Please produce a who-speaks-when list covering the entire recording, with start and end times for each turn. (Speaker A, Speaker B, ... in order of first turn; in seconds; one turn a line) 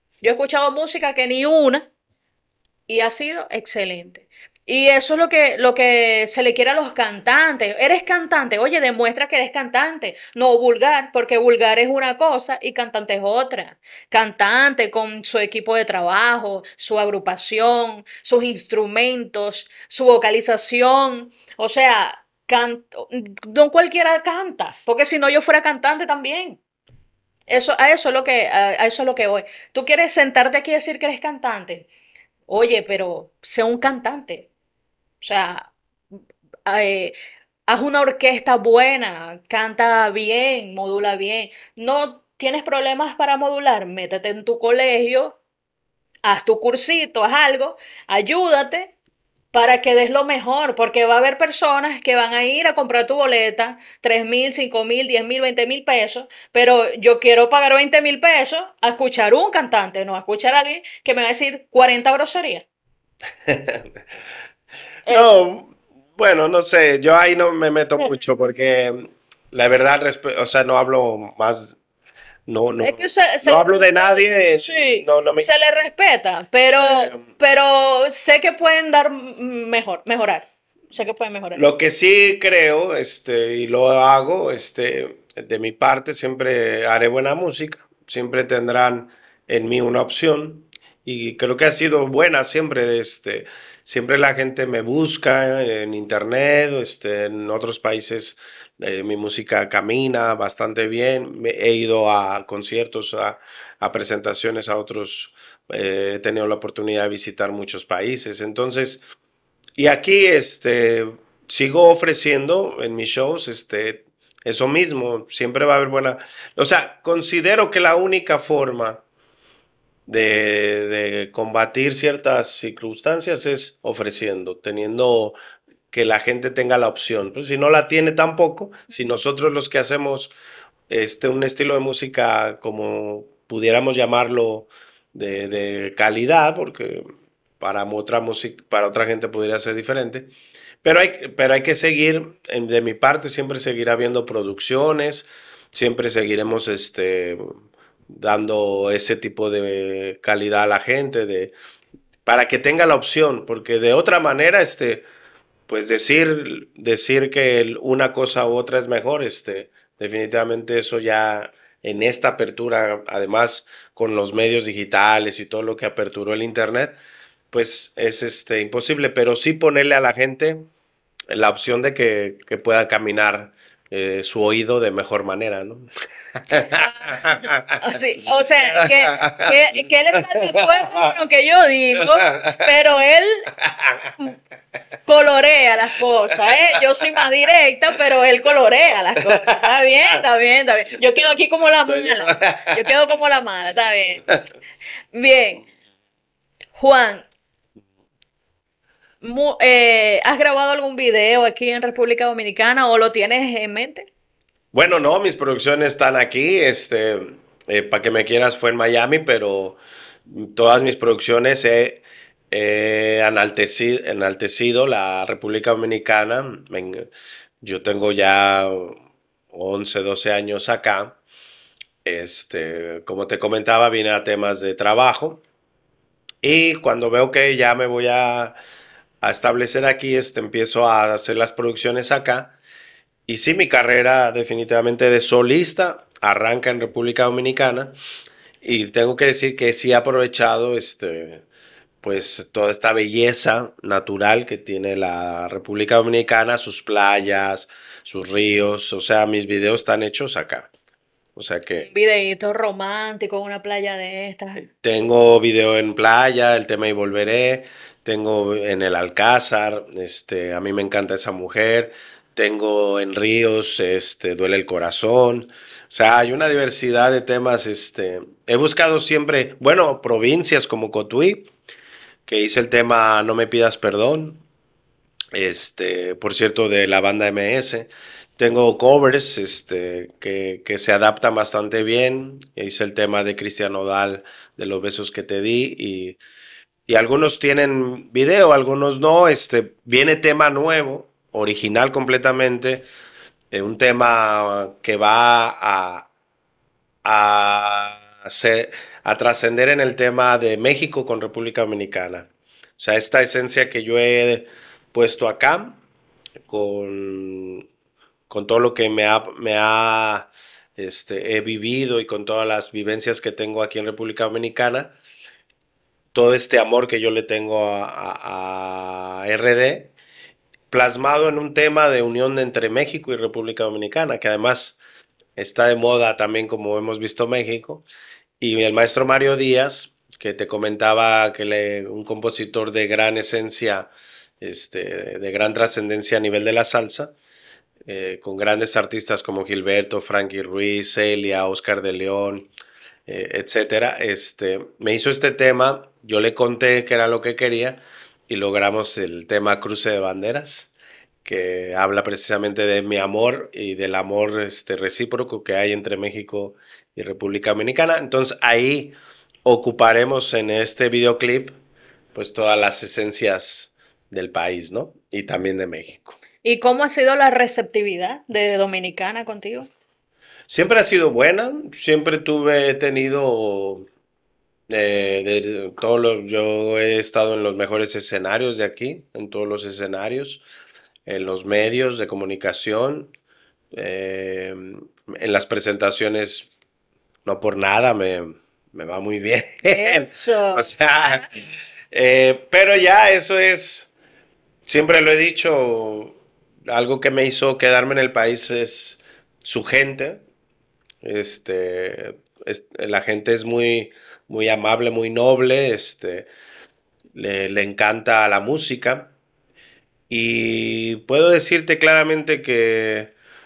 Speaker A: 0.2-1.9
Speaker A: 2.9-26.6
Speaker A: 27.5-31.9
Speaker A: 32.5-34.5
Speaker A: 35.2-35.7
Speaker A: 36.6-37.1
Speaker A: 37.7-45.4
Speaker A: 46.2-48.9
Speaker A: 49.5-62.6
Speaker B: 63.5-63.9
Speaker A: 65.1-65.4
Speaker B: 65.1-71.8
Speaker B: 72.5-75.5
Speaker A: 72.8-81.6
Speaker B: 76.8-77.3
Speaker B: 81.6-109.0
Speaker B: 109.8-119.0
Speaker B: 120.1-125.4
Speaker B: 125.9-130.3
Speaker B: 130.9-137.1
Speaker B: 137.6-140.3
Speaker B: 140.8-147.4
Speaker B: 148.1-151.5
Speaker B: 152.2-155.1
Speaker B: 155.7-166.9
Speaker B: 167.5-170.7
Speaker B: 171.3-177.8
Speaker A: 176.8-183.5
Speaker B: 178.6-179.6
Speaker B: 180.1-181.1
Speaker B: 182.0-182.7
Speaker B: 183.6-184.1
Speaker A: 185.1-194.2
Speaker B: 191.8-192.8
Speaker A: 195.1-195.6
Speaker A: 196.8-197.2
Speaker A: 199.2-204.1
Speaker B: 204.7-217.1
Speaker B: 217.6-221.2
Speaker B: 222.1-225.4
Speaker B: 226.4-228.6
Speaker B: 229.2-232.6
Speaker B: 233.3-237.9
Speaker B: 238.6-241.4
Speaker B: 242.0-250.7
Speaker B: 251.4-251.9
Speaker A: 251.8-254.6
Speaker B: 254.6-271.5
Speaker B: 272.2-274.4
Speaker B: 275.3-286.2
Speaker B: 286.9-292.9
Speaker B: 293.5-296.1
Speaker B: 297.1-305.8
Speaker B: 306.4-307.6
Speaker B: 308.3-314.9
Speaker B: 316.1-319.9
Speaker B: 320.7-324.8
Speaker B: 325.4-327.9
Speaker B: 328.4-333.9
Speaker B: 334.4-337.1
Speaker B: 337.8-342.5
Speaker B: 343.1-350.7
Speaker B: 351.2-361.6
Speaker B: 362.1-366.2
Speaker A: 366.4-369.7
Speaker B: 370.5-373.9
Speaker B: 374.7-380.4
Speaker B: 381.1-383.1
Speaker B: 383.7-386.5
Speaker B: 387.3-391.3
Speaker A: 389.6-391.3
Speaker B: 391.9-393.9
Speaker B: 394.7-400.2
Speaker B: 401.0-406.3
Speaker B: 407.1-409.1
Speaker B: 410.1-413.1